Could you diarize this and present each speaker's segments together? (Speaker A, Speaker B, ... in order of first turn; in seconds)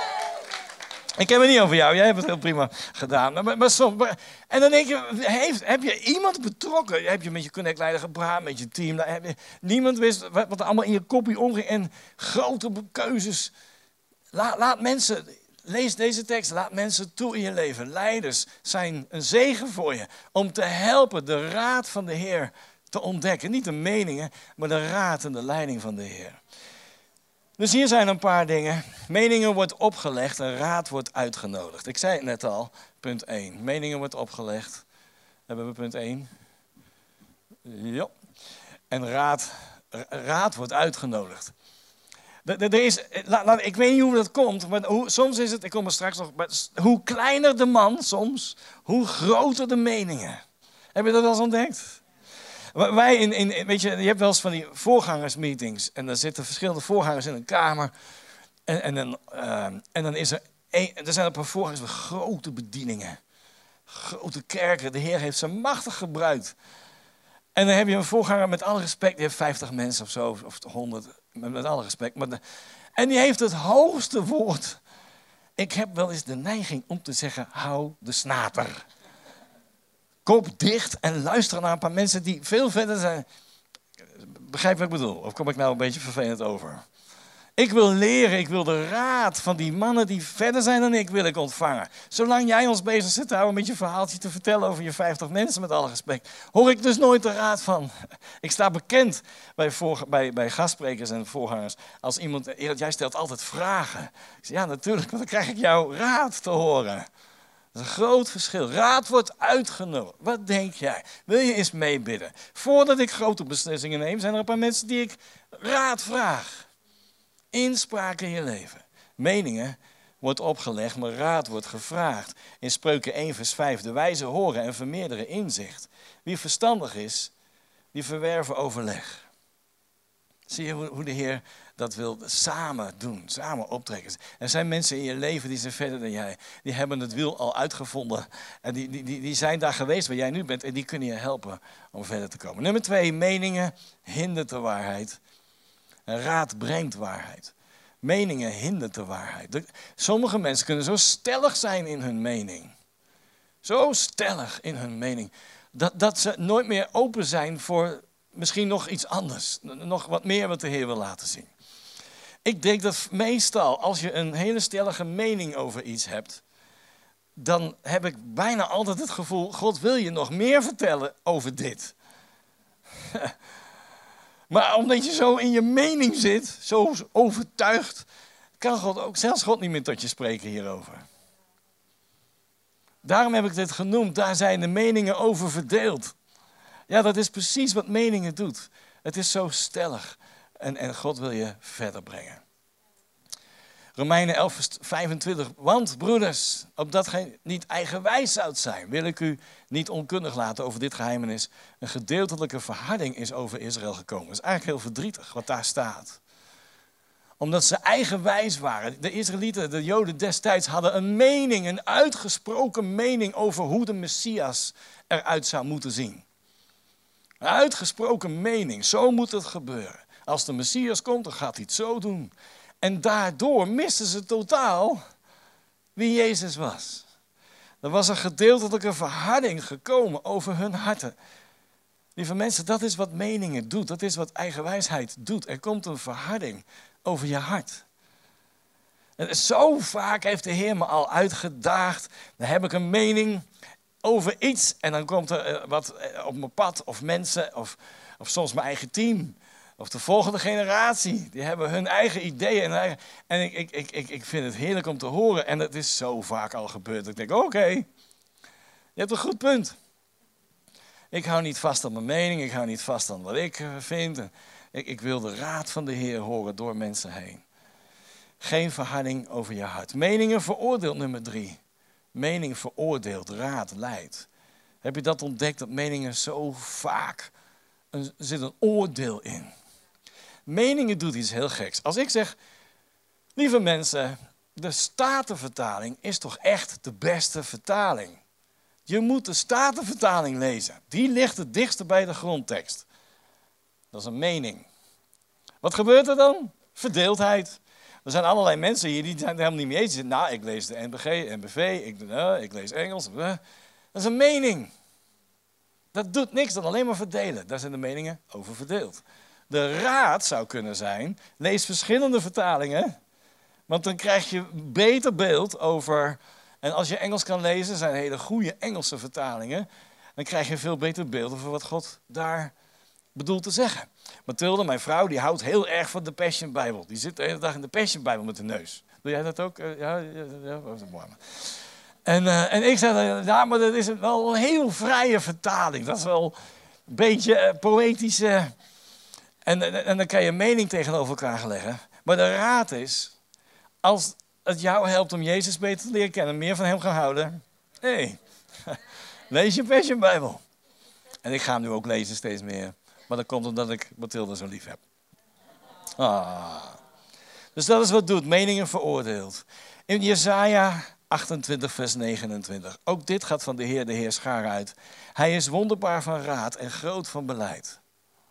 Speaker A: 1.2-13.5, 14.3-26.4, 27.6-34.9, 35.5-36.3, 37.6-38.1, 38.9-41.5, 42.5-50.4, 51.0-52.0, 52.7-57.9, 58.7-63.2, 63.9-66.5, 67.5-72.4, 73.0-74.8, 75.6-78.8, 80.2-83.3, 84.2-86.8, 87.6-107.1, 107.7-116.7, 117.5-127.3, 127.9-129.3, 130.5-145.2, 146.1-152.7, 153.6-161.5, 162.4-166.4, 167.4-171.9, 174.5-178.1, 178.6-181.0, 183.0-186.2, 186.9-192.4, 194.0-206.2, 207.4-216.2, 217.4-225.0, 226.0-227.1, 227.8-231.2, 232.2-237.8, 239.2-243.4, 244.0-257.9, 259.0-259.8, 261.1-267.4, 268.4-271.6, 272.1-274.3, 274.8-277.3, 277.9-279.5, 280.5-282.4, 283.4-288.2, 288.9-292.9, 293.9-294.7, 295.6-303.4, 303.9-304.7, 305.9-313.0, 313.7-322.5, 323.1-331.4, 332.1-336.4, 336.9-338.5, 339.5-343.1, 343.8-348.8, 349.3-350.4, 351.2-354.8, 356.0-356.8, 357.6-367.8